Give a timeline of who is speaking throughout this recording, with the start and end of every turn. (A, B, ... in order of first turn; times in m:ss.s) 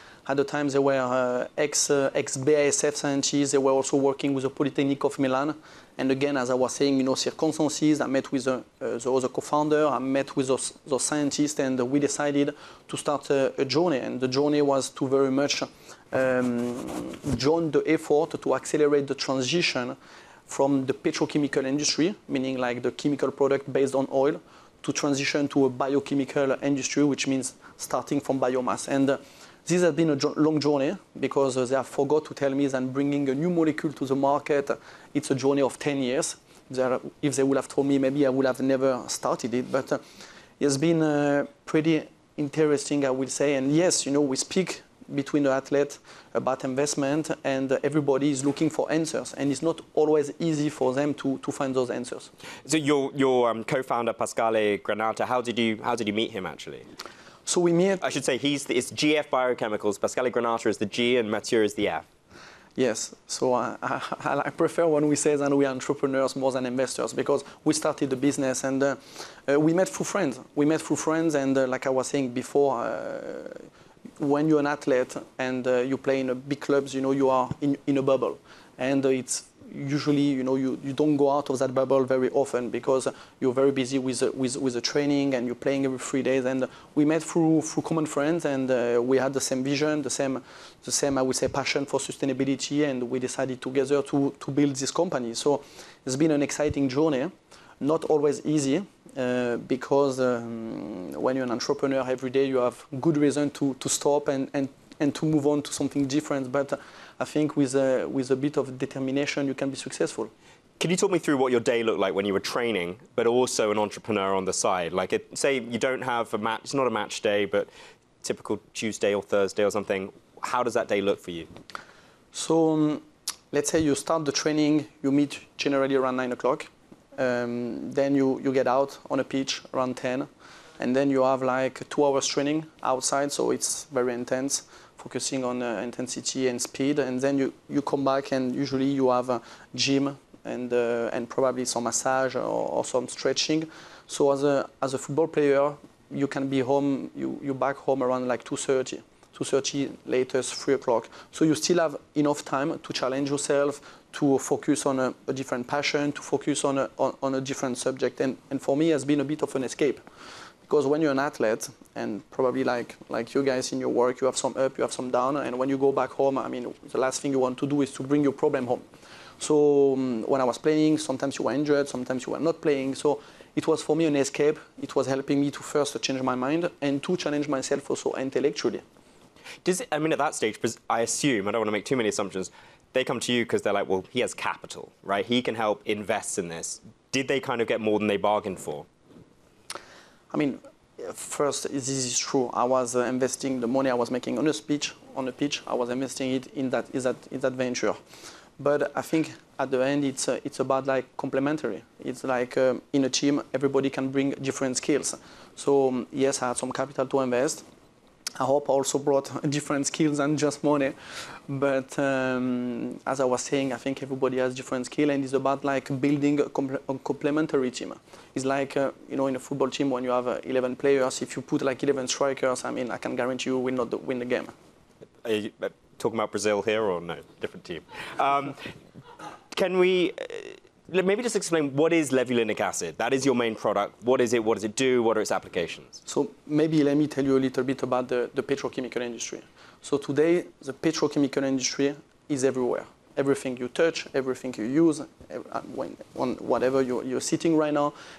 0:00.3-0:20.0 A
0:20.5-0:40.0 A
0:40.6-0:52.3 A
0:52.7-0:56.8 B
0:57.5-0:58.0 A
0:58.0-1:02.0 B
1:02.8-1:13.7 A
1:14.2-1:50.3 A
1:50.8-1:57.7 B
1:58.2-2:01.5 B
2:02.3-2:10.3 A
2:10.8-2:40.0 A
2:40.7-2:48.8 A
2:49.4-2:58.8 A
2:59.6-3:08.9 B
3:10.3-3:18.0 A
3:18.6-3:27.6 A
3:28.4-3:31.0 A
3:31.5-3:44.5 A
3:45.2-3:48.6 B
3:49.5-3:56.0 B
3:56.1-4:08.0 A